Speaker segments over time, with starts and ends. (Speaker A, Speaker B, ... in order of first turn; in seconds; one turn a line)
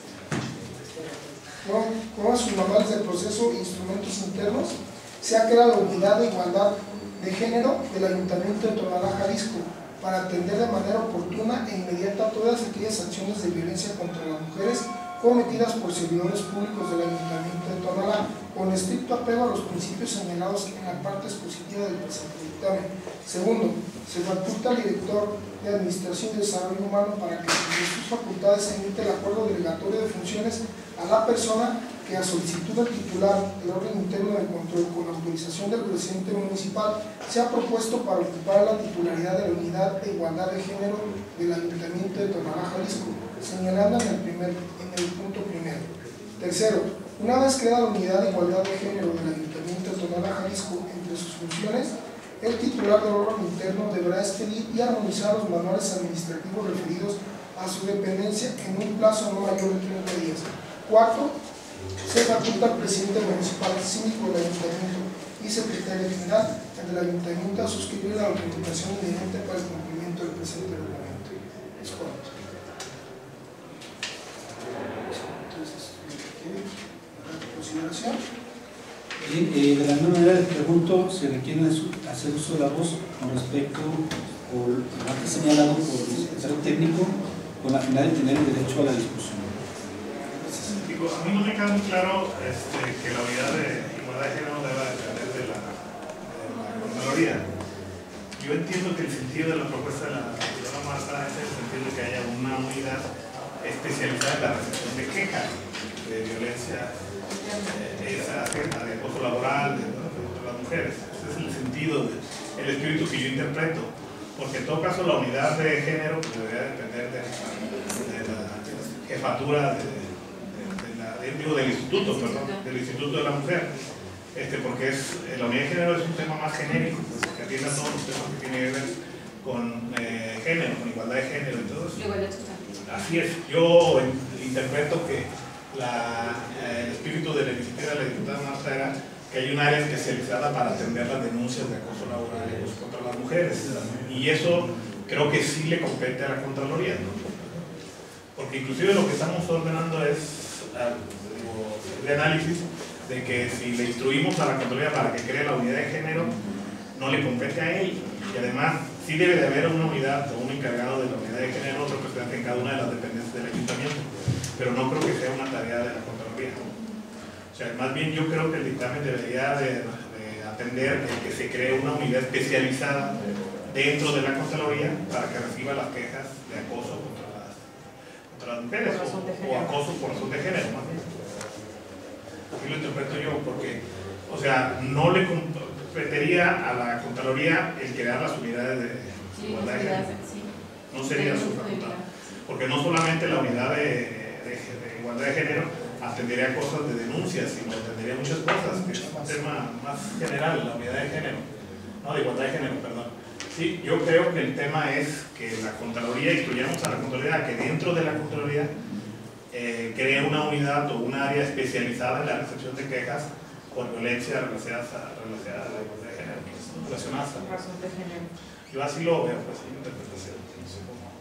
Speaker A: 1.6-61.4
Speaker A: 62.0-72.4
Speaker A: 75.1-78.2
Speaker B: 79.2-89.5
Speaker A: 85.3-87.3
Speaker A: 90.2-90.9
Speaker C: 90.7-97.5
Speaker C: 98.4-103.1
Speaker C: 103.6-107.0
Speaker D: 107.4-107.8
Speaker C: 107.6-123.7
Speaker D: 121.9-122.6
Speaker C: 124.3-132.0
Speaker D: 132.0-132.8
Speaker C: 132.9-147.3
Speaker C: 148.4-156.3
Speaker C: 156.9-166.7
Speaker C: 167.5-177.8
Speaker C: 178.3-181.1
Speaker D: 178.8-180.1
Speaker C: 182.5-190.1
Speaker D: 189.3-192.4
Speaker C: 190.9-201.5
Speaker A: 198.6-199.5
Speaker C: 202.0-208.7
Speaker C: 209.5-217.5
Speaker D: 217.3-218.3
Speaker C: 218.7-221.1